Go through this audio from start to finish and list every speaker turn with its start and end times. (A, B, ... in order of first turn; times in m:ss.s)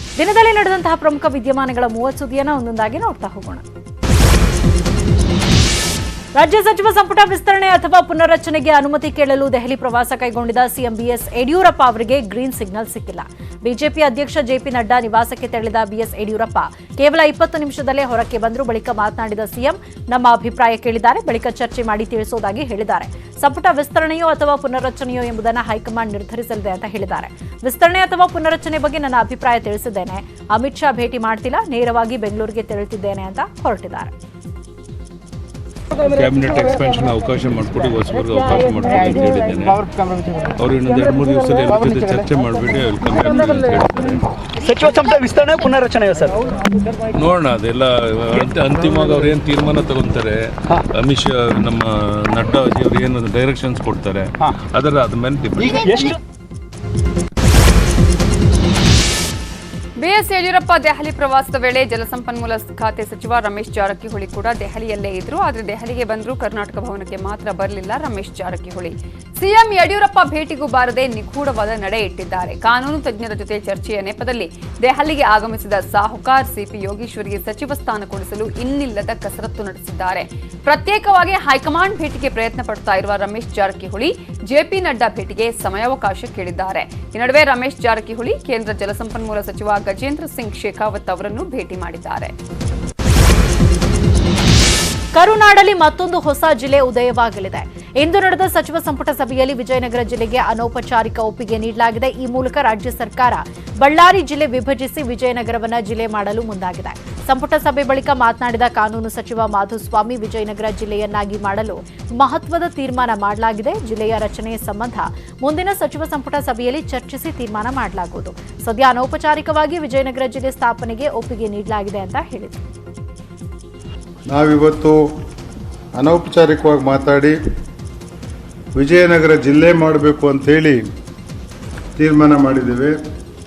0:00.2-0:03.6 A
0:06.4-0:34.1 A
0:36.0-0:39.8 B
0:40.6-0:44.2 B
0:44.6-0:46.4 C
0:47.1-0:56.0 B
0:55.8-0:56.1 C
1:00.0-1:32.3 D
1:35.1-2:02.6 A
2:04.3-2:05.0 E
2:06.0-2:07.4 E
2:08.7-2:10.8 E
2:12.0-2:13.0 E